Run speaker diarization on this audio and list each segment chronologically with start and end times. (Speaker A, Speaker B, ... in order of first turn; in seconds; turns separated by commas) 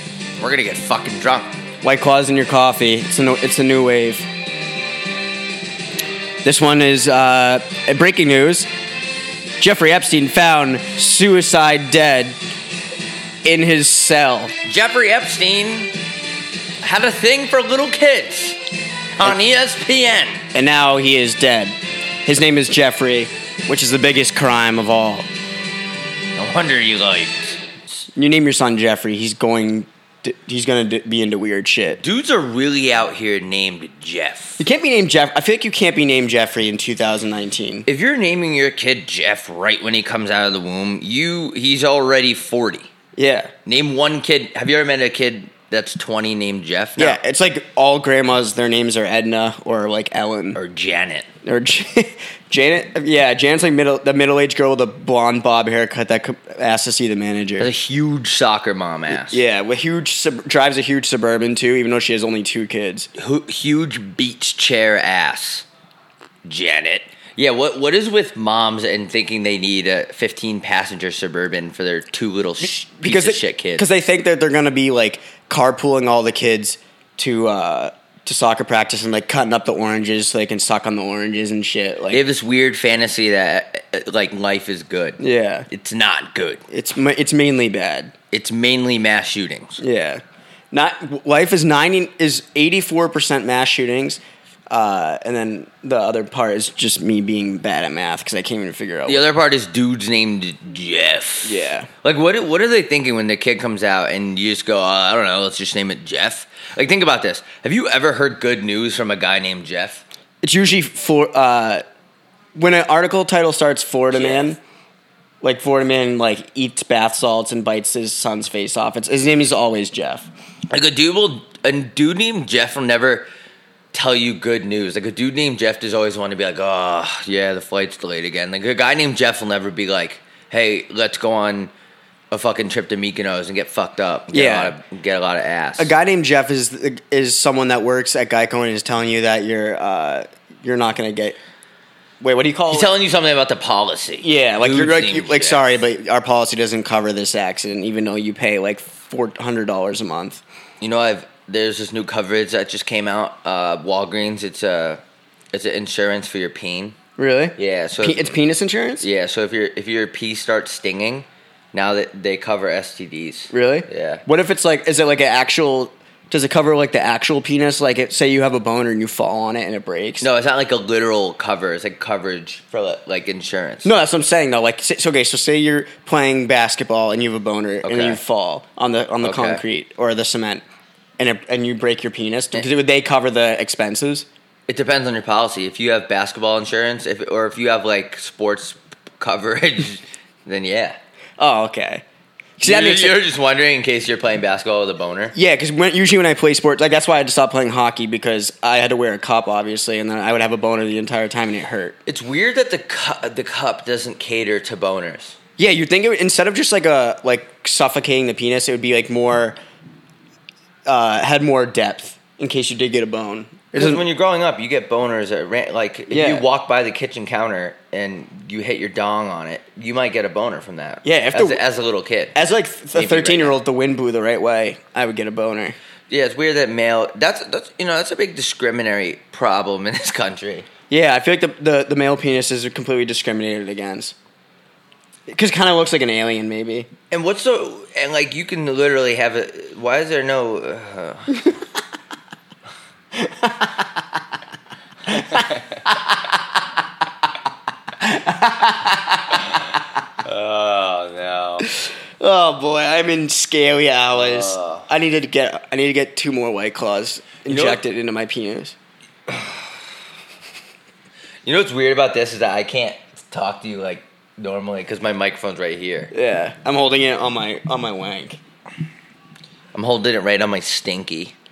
Speaker A: 0.4-1.5, Speaker B: 1.8-4.3, Speaker B: 6.4-8.7, Speaker B: 9.6-12.4, Speaker B: 13.4-14.6, Speaker A: 14.7-15.9, Speaker A: 16.8-18.6, Speaker A: 19.2-20.4, Speaker B: 20.5-25.3, Speaker A: 26.4-27.6, Speaker B: 28.1-32.0, Speaker A: 32.0-34.6, Speaker B: 34.6-37.9, Speaker A: 37.9-42.9, Speaker B: 43.2-43.5, Speaker A: 43.7-47.2, Speaker B: 47.0-50.6, Speaker A: 50.5-51.3, Speaker B: 51.4-57.7, Speaker A: 57.6-59.4, Speaker B: 59.1-63.1, Speaker A: 63.1-65.7, Speaker A: 66.5-73.8, Speaker B: 72.6-82.2, Speaker A: 82.1-85.2, Speaker B: 85.2-85.7, Speaker A: 85.7-86.6, Speaker B: 86.7-88.1, Speaker A: 88.3-89.8, Speaker B: 89.8-99.2, Speaker A: 99.1-110.0, Speaker B: 101.4-101.9, Speaker B: 110.4-111.8, Speaker B: 112.5-114.6, Speaker A: 114.1-114.5, Speaker B: 115.4-120.3, Speaker A: 120.7-123.3, Speaker A: 123.9-131.7, Speaker A: 132.3-135.9, Speaker B: 134.3-134.8, Speaker B: 135.8-141.4, Speaker B: 142.2-142.9, Speaker A: 142.7-145.8, Speaker B: 144.2-150.4, Speaker A: 150.8-157.0, Speaker B: 157.2-159.1, Speaker A: 157.6-158.3, Speaker A: 159.0-164.2, Speaker B: 163.5-170.3, Speaker A: 170.2-173.9, Speaker B: 173.8-180.6, Speaker A: 177.8-178.2, Speaker A: 179.2-179.6, Speaker B: 181.2-184.3, Speaker A: 184.7-191.0, Speaker B: 191.4-192.0, Speaker B: 192.6-193.2, Speaker A: 192.6-195.3, Speaker B: 195.3-202.0, Speaker A: 202.1-205.4, Speaker B: 205.6-209.6, Speaker B: 210.9-214.0, Speaker A: 213.8-222.3, Speaker B: 216.1-216.5, Speaker B: 221.0-221.6, Speaker B: 222.3-225.8, Speaker A: 222.9-223.6, Speaker A: 226.1-230.7, Speaker B: 230.9-234.1, Speaker B: 235.3-236.9, Speaker A: 237.1-241.3, Speaker B: 243.2-243.7, Speaker B: 248.0-248.9, Speaker A: 250.2-251.7, Speaker B: 251.7-258.8, Speaker A: 254.1-254.9, Speaker A: 257.5-257.8, Speaker A: 259.3-259.6, Speaker A: 261.4-266.1, Speaker B: 266.1-268.4, Speaker A: 269.7-271.3